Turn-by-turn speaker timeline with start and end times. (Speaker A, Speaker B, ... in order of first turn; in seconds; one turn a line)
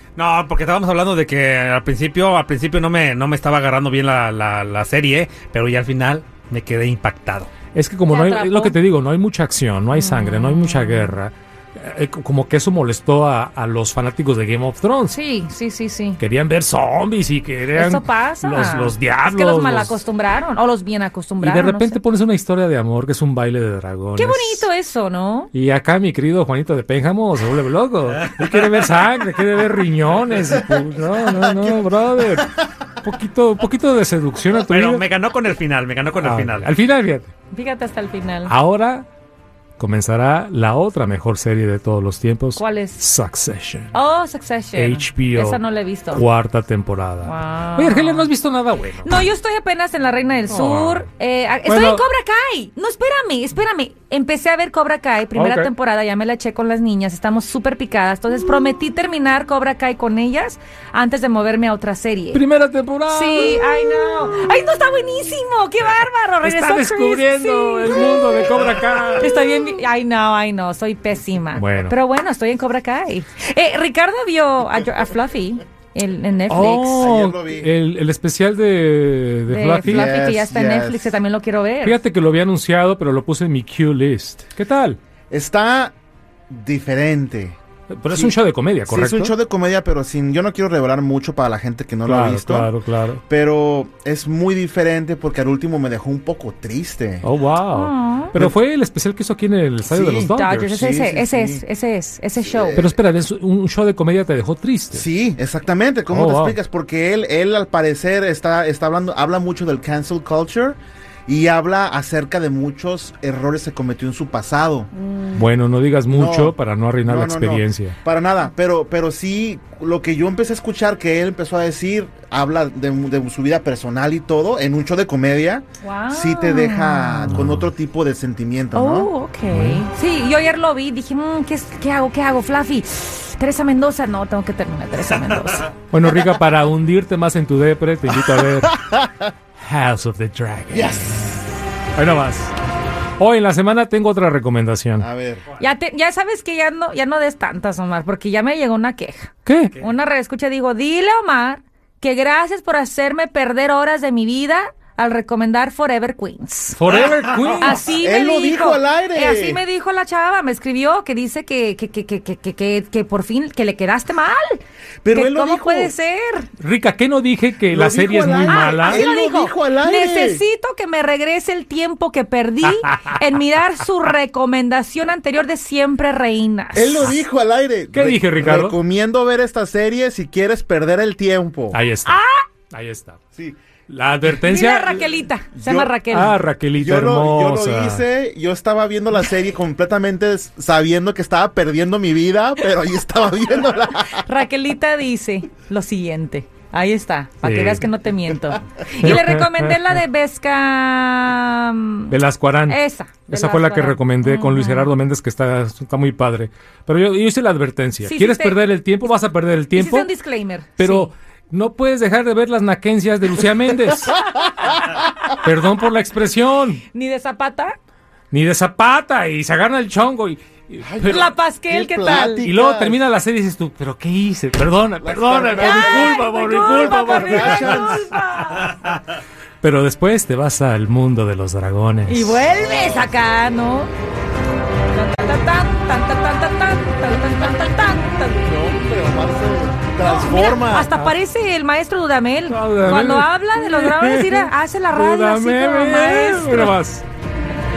Speaker A: 0.2-7.5
Speaker B: 7.7-15.2
Speaker C: 8.1-8.8
Speaker C: 9.9-11.2
Speaker C: 15.1-16.2
Speaker B: 16.2-20.0
Speaker C: 17.7-22.0
Speaker B: 21.4-24.7
Speaker C: 24.2-25.5
Speaker B: 25.5-35.0
Speaker D: 30.6-32.5
Speaker A: 34.6-36.7
Speaker B: 36.2-37.3
Speaker C: 37.5-38.5
Speaker B: 38.5-39.1
Speaker B: 39.8-43.9
Speaker C: 42.6-43.0
Speaker C: 43.9-46.2
Speaker B: 44.8-45.6
Speaker B: 46.1-49.2
Speaker C: 47.2-48.3
Speaker C: 49.0-62.4
Speaker B: 50.5-51.1
Speaker B: 51.7-52.1
Speaker B: 55.4-55.7
Speaker B: 62.3-63.9
Speaker C: 63.1-68.5
Speaker B: 66.4-69.8
Speaker C: 69.2-77.1
Speaker B: 71.6-72.0
Speaker B: 76.5-80.1
Speaker D: 76.9-77.7
Speaker C: 79.5-82.0
Speaker D: 79.8-81.2
Speaker B: 81.8-85.0
Speaker D: 85.3-85.9
Speaker D: 86.5-87.6
Speaker B: 87.9-89.3
Speaker D: 88.1-88.4
Speaker D: 88.9-92.7
Speaker B: 92.0-93.2
Speaker D: 93.3-97.3
Speaker B: 97.2-100.8
Speaker C: 97.7-98.3
Speaker D: 99.8-101.6
Speaker C: 100.3-102.8
Speaker D: 102.4-103.0
Speaker B: 102.8-105.1
Speaker D: 104.9-114.9
Speaker B: 106.1-106.6
Speaker B: 115.3-118.0
Speaker D: 116.1-129.1
Speaker C: 125.8-127.4
Speaker B: 127.3-127.7
Speaker C: 128.7-135.7
Speaker B: 129.5-129.8
Speaker B: 135.9-138.9
Speaker D: 138.2-139.2
Speaker B: 139.6-141.2
Speaker D: 140.7-141.4
Speaker B: 141.9-142.5
Speaker B: 143.2-145.1
Speaker D: 145.0-145.4
Speaker C: 145.6-156.8
Speaker B: 149.4-149.8
Speaker B: 156.7-157.8
Speaker C: 157.6-166.5
Speaker D: 157.8-159.6
Speaker D: 165.0-165.9
Speaker B: 166.6-169.1
Speaker D: 167.7-170.4
Speaker C: 168.5-177.1
Speaker B: 172.6-173.2
Speaker D: 176.7-181.8
Speaker B: 177.9-178.8
Speaker B: 181.7-182.2
Speaker C: 182.1-182.4
Speaker B: 182.7-183.2
Speaker B: 183.9-185.1
Speaker C: 184.4-186.4
Speaker D: 185.5-185.9
Speaker B: 186.1-188.0
Speaker D: 186.8-194.2
Speaker C: 194.1-202.2
Speaker B: 197.4-197.9
Speaker B: 199.0-199.8
Speaker B: 202.1-210.1
Speaker C: 202.7-204.9
Speaker C: 208.0-208.6
Speaker C: 209.8-211.1
Speaker B: 210.8-214.3
Speaker B: 215.4-216.8
Speaker C: 216.9-217.8
Speaker B: 218.3-221.3
Speaker D: 220.8-223.0
Speaker C: 221.1-222.5
Speaker B: 222.3-228.0
Speaker D: 225.0-226.2
Speaker C: 225.6-229.0
Speaker D: 226.8-228.0
Speaker B: 229.6-232.5
Speaker C: 232.1-233.9
Speaker C: 234.9-238.6
Speaker D: 238.4-240.9
Speaker C: 240.0-246.8
Speaker B: 242.5-247.1